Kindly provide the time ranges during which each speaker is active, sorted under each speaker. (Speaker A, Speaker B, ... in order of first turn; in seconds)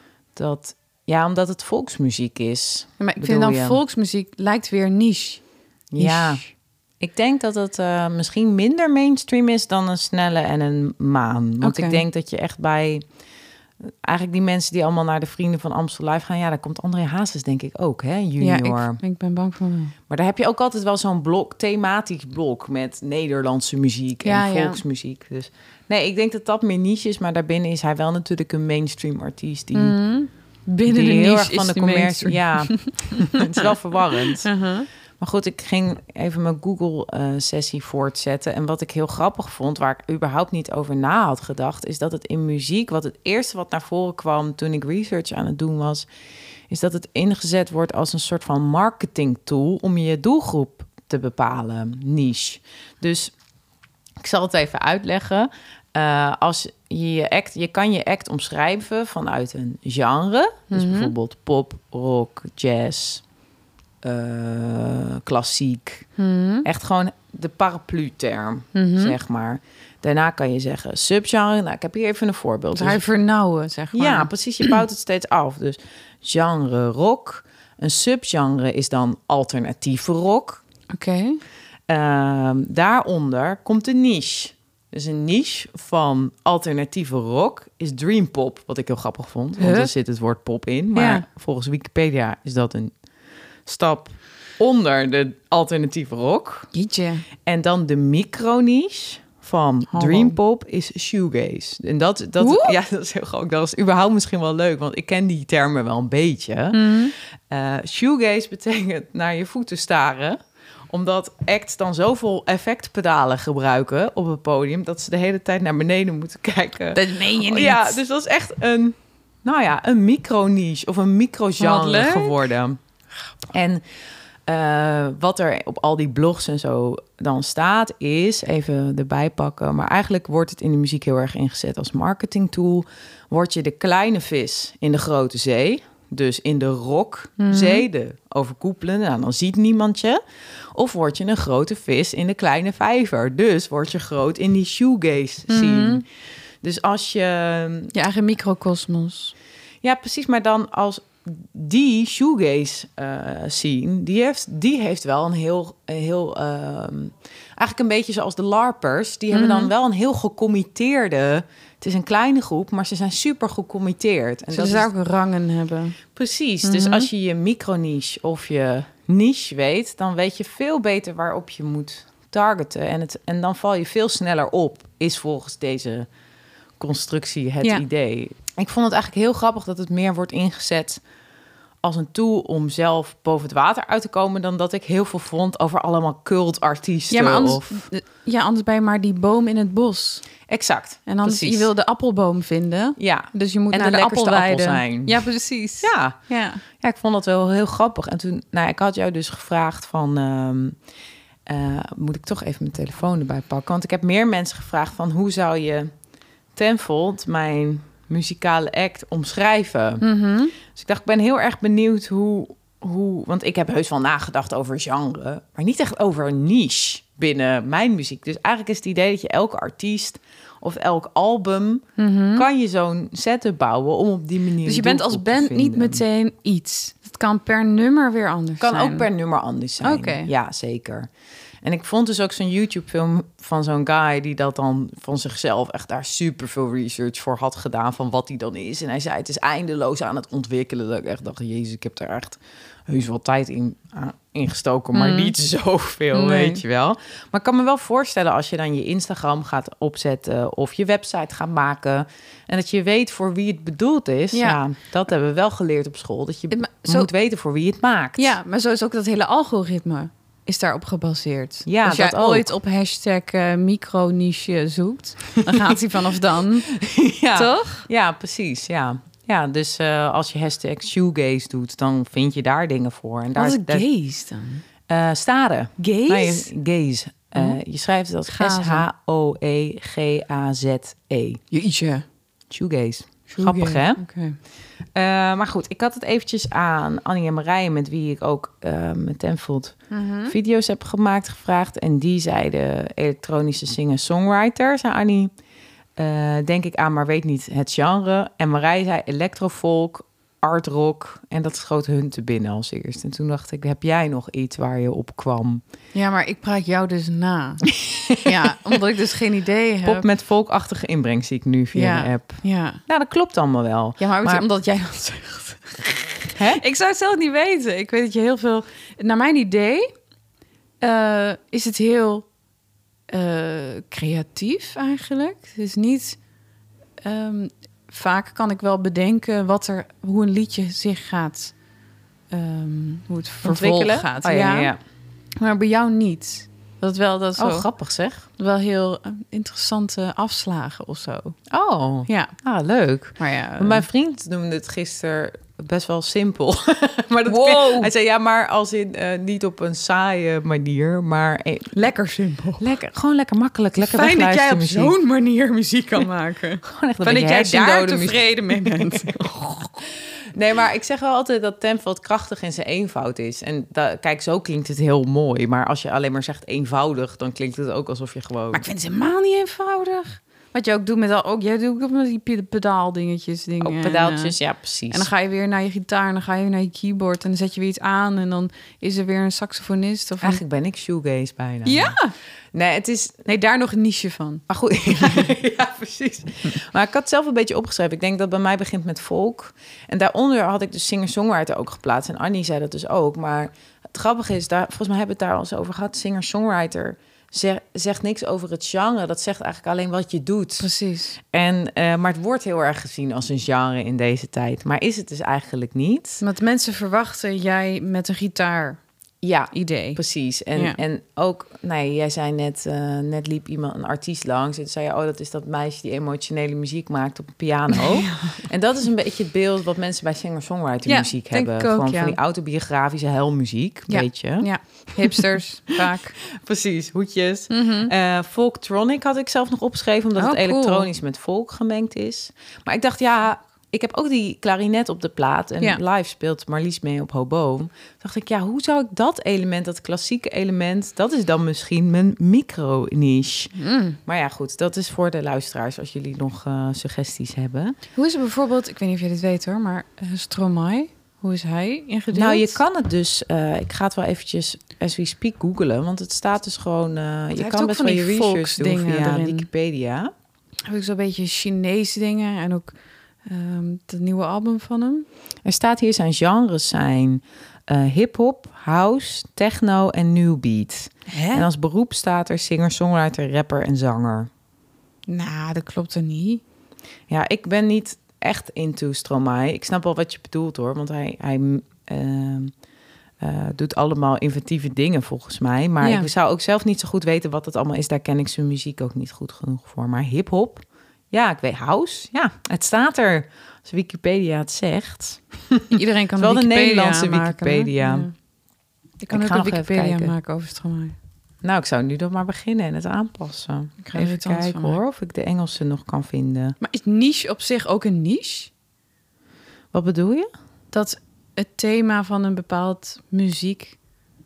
Speaker A: 0.3-3.8, 5.9-6.4, 7.0-13.0, 13.8-19.0, 20.1-29.9, 30.9-34.5, 35.2-46.1, 46.7-53.3, 54.2-63.2, 64.0-66.1, 66.6-73.0, 73.9-80.6, 81.9-92.9, 93.7-96.7, 97.4-107.0, 107.5-110.4, 110.9-122.8, 123.5-123.8, 124.5-140.2, 140.7-146.0, 146.6-147.9, 149.8-164.9, 166.1-176.1, 176.8-181.0, 181.8-187.8, 190.5-191.7, 193.0-195.2, 195.8-196.2, 196.8-200.8, 201.5-205.9, 206.6-210.0, 210.6-226.0, 228.6-231.1, 231.6-258.4, 261.6-262.5, 265.5-265.8, 266.6-273.8, 274.9-281.4, 282.5-284.0, 284.9-289.8, 290.3-295.3, 296.0-305.6, 307.7-308.5, 309.8-314.4, 316.4-316.6, 333.4-334.8, 337.4-338.3, 341.5-351.8, 352.6-354.9, 356.6-368.6, 373.6-375.1, 380.2-381.9, 382.5-383.2, 384.5-400.7, 401.2-406.2, 409.2-443.5, 444.1-447.8, 452.1-460.1, 465.4-474.3, 477.1-482.5, 483.2-498.1, 499.1-500.1, 501.4-506.6, 509.7-510.3
Speaker B: 3.0-5.4, 6.0-6.5, 11.6-12.0, 18.4-19.9, 24.2-24.8, 29.7-34.9, 60.7-61.1, 66.2-66.7, 68.7-69.2, 72.7-74.8, 80.9-81.4, 89.6-89.9, 90.9-91.2, 96.7-97.2, 99.9-100.4, 102.4-102.8, 106.7-107.1, 116.9-118.0, 121.6-122.4, 137.4-137.8, 145.5-146.0, 147.9-149.3, 159.3-159.7, 164.5-166.0, 166.6-167.1, 187.1-190.2, 191.1-196.6, 210.0-210.6, 222.0-222.5, 224.6-229.1, 229.8-230.3, 244.9-245.3, 246.1-246.6, 254.3-254.6, 256.5-257.1, 258.2-266.7, 267.3-267.9, 273.4-274.6, 275.8-276.5, 278.3-278.9, 281.5-282.0, 283.3-284.4, 289.9-290.4, 305.9-310.1, 311.7-312.8, 314.0-319.9, 320.8-322.3, 323.1-326.2, 327.0-331.5, 332.3-334.7, 335.4-337.7, 338.4-341.4, 342.1-342.3, 343.2-343.9, 347.2-347.9, 351.7-352.7, 353.8-359.7, 368.5-374.3, 374.9-380.4, 381.6-382.1, 383.2-385.3, 400.6-401.2, 406.2-408.8, 409.5-410.0, 417.7-418.4, 420.9-422.2, 423.9-426.1, 427.5-427.9, 430.1-430.9, 443.5-444.0, 447.9-452.6, 457.3-459.5, 460.7-462.7, 463.2-465.1, 471.1-471.5, 475.1-476.4, 485.8-486.1, 495.7-498.1, 499.0-500.9, 503.8-504.8, 506.6-508.5, 510.7-513.8